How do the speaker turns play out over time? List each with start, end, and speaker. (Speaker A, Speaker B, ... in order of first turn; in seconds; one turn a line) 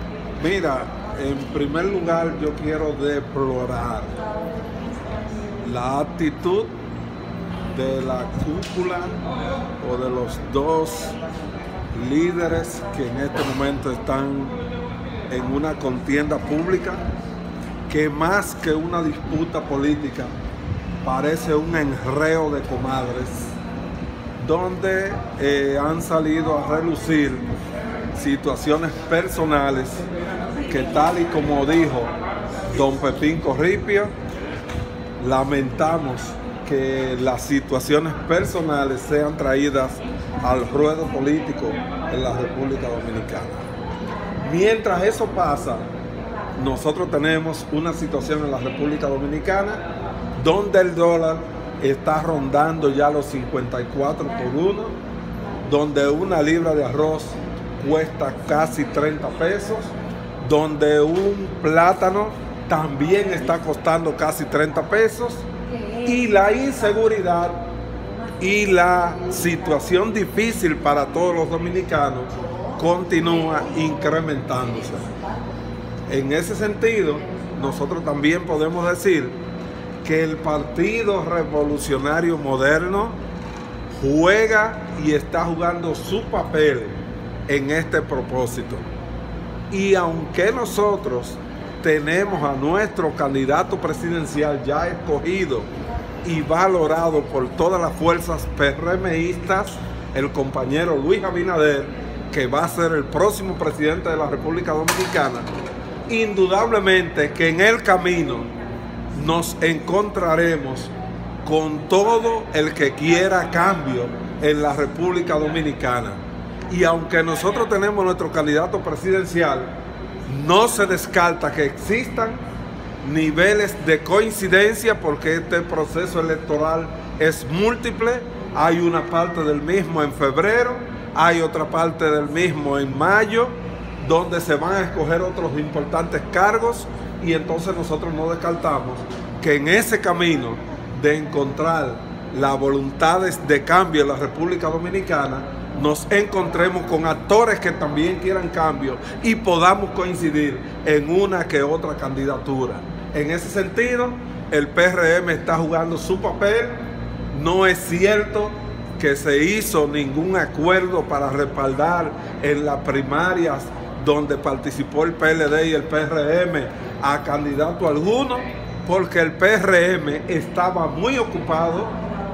Speaker A: 0.4-4.1
Speaker A: 5.6-6.7
Speaker A: 7.7-9.2
Speaker A: 9.8-11.2
Speaker A: 11.9-14.6
Speaker A: 15.3-17.0
Speaker A: 17.9-20.3
Speaker A: 21.0-23.5
Speaker A: 24.4-27.5
Speaker A: 28.1-30.0
Speaker A: 30.7-32.1
Speaker A: 32.7-34.1
Speaker A: 35.2-43.6
Speaker A: 44.4-45.9
Speaker A: 46.6-49.8
Speaker A: 50.4-55.0
Speaker A: 55.6-65.5
Speaker A: 66.0-67.7
Speaker A: 68.4-75.1
Speaker A: 76.1-79.4
Speaker A: 80.0-83.2
Speaker A: 83.9-88.8
Speaker A: 89.7-95.7
Speaker A: 96.2-105.5
Speaker A: 106.1-108.5
Speaker A: 109.2-110.9
Speaker A: 111.4-119.7
Speaker A: 120.3-122.4
Speaker A: 123.0-172.0